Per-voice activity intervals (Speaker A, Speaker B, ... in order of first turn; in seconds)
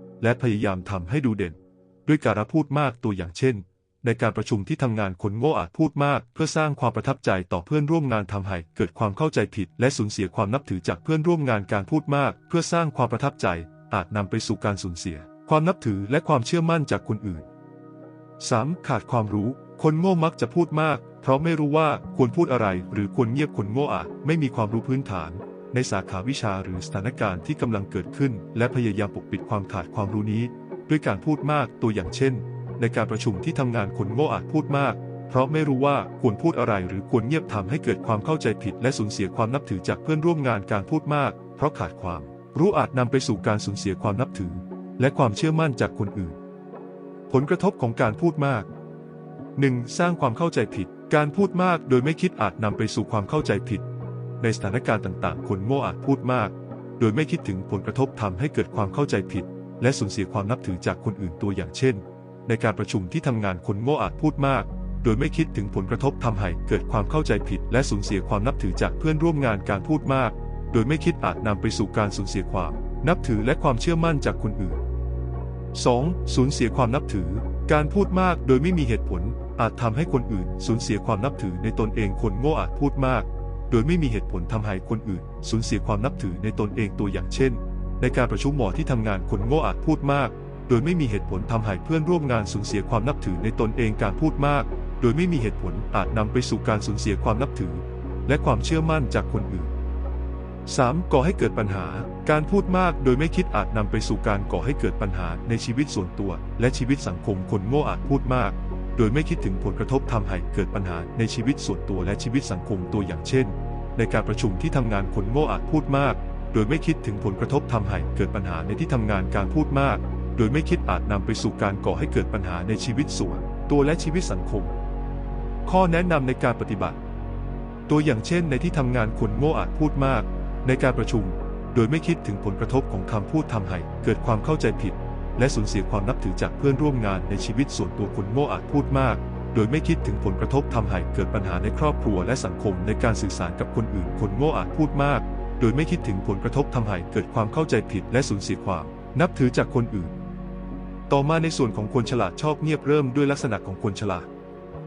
Speaker A: 0.2-17.5, 18.4-46.4, 47.3-48.7, 49.5-53.9, 54.4-74.8, 75.7-99.7, 100.7-124.7, 125.7-127.0, 127.9-150.1, 151.1-154.3